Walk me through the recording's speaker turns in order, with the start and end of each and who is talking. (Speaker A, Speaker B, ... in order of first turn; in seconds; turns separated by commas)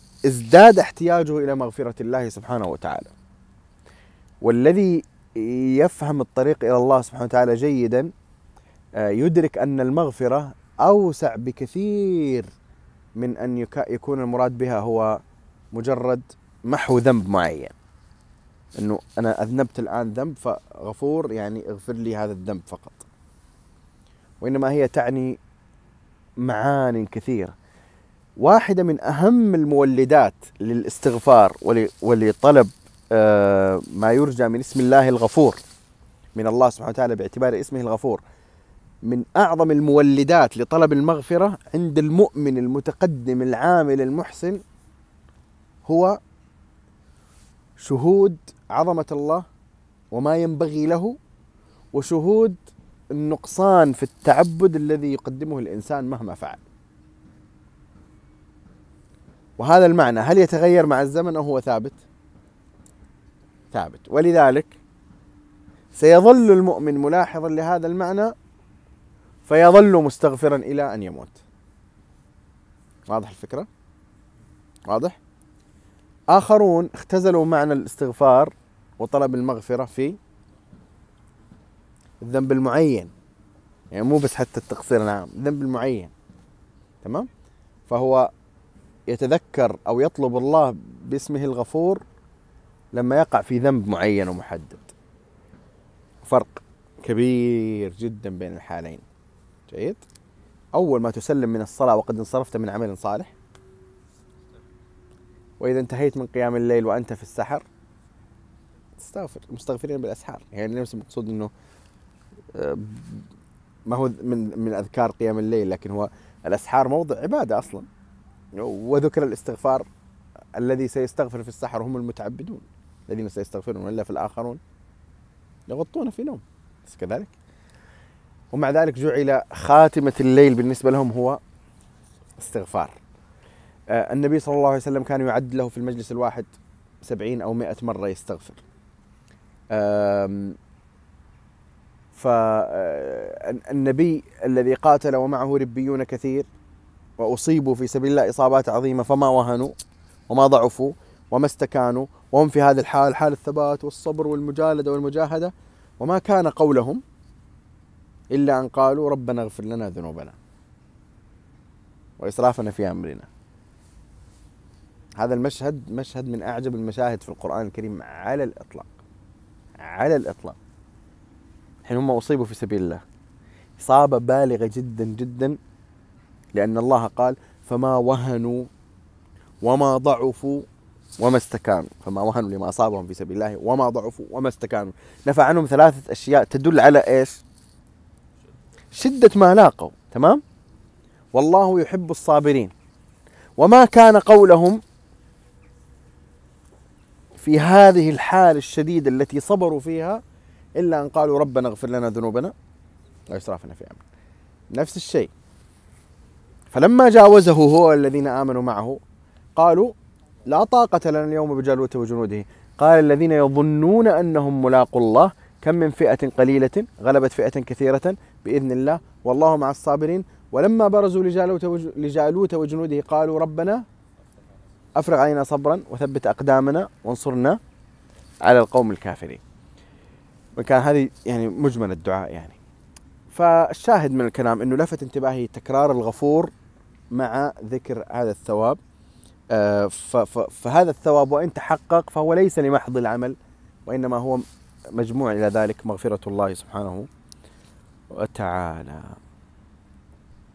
Speaker A: 0.3-3.1, Speaker A: 4.4-8.1, Speaker A: 9.0-12.5, Speaker A: 13.2-15.2, Speaker A: 15.7-17.7, Speaker A: 18.8-23.1, Speaker A: 24.4-25.4, Speaker A: 26.4-27.5, Speaker A: 28.4-35.6, Speaker A: 36.3-38.2, Speaker A: 39.0-44.6, Speaker A: 45.9-46.2, Speaker A: 47.8-49.5, Speaker A: 50.1-51.2, Speaker A: 51.9-52.6, Speaker A: 53.1-56.6, Speaker A: 59.6-62.0, Speaker A: 63.7-64.8, Speaker A: 65.9-68.3, Speaker A: 69.5-71.4, Speaker A: 73.1-73.7, Speaker A: 74.9-75.2, Speaker A: 76.3-80.2, Speaker A: 82.2-83.1, Speaker A: 83.9-86.1, Speaker A: 87.0-87.3, Speaker A: 87.9-88.3, Speaker A: 89.1-92.0, Speaker A: 92.9-94.9, Speaker A: 96.2-99.0, Speaker A: 99.7-100.0, Speaker A: 100.7-103.3, Speaker A: 105.6-107.7, Speaker A: 109.0-111.5, Speaker A: 112.5-113.2, Speaker A: 113.9-117.9, Speaker A: 118.5-119.9, Speaker A: 120.6-124.6, Speaker A: 125.7-127.3, Speaker A: 128.5-131.4, Speaker A: 132.4-133.0, Speaker A: 133.9-136.5, Speaker A: 137.0-138.6, Speaker A: 139.7-140.6, Speaker A: 142.1-146.5, Speaker A: 147.2-149.7, Speaker A: 150.3-157.0, Speaker A: 158.3-160.4, Speaker A: 162.2-163.3, Speaker A: 165.2-168.9, Speaker A: 169.8-170.6, Speaker A: 171.8-173.0, Speaker A: 173.8-175.6, Speaker A: 176.5-178.7, Speaker A: 179.6-180.7, Speaker A: 181.2-187.4, Speaker A: 188.9-190.4, Speaker A: 191.3-192.7, Speaker A: 193.6-194.8, Speaker A: 197.4-200.2, Speaker A: 200.8-202.5, Speaker A: 203.3-204.0, Speaker A: 204.7-205.3, Speaker A: 206.7-209.0, Speaker A: 209.6-209.9, Speaker A: 210.5-223.8, Speaker A: 224.9-227.6, Speaker A: 228.4-229.4, Speaker A: 230.6-232.6, Speaker A: 233.3-236.5, Speaker A: 237.1-238.8, Speaker A: 239.5-243.3, Speaker A: 243.9-247.1, Speaker A: 248.1-249.2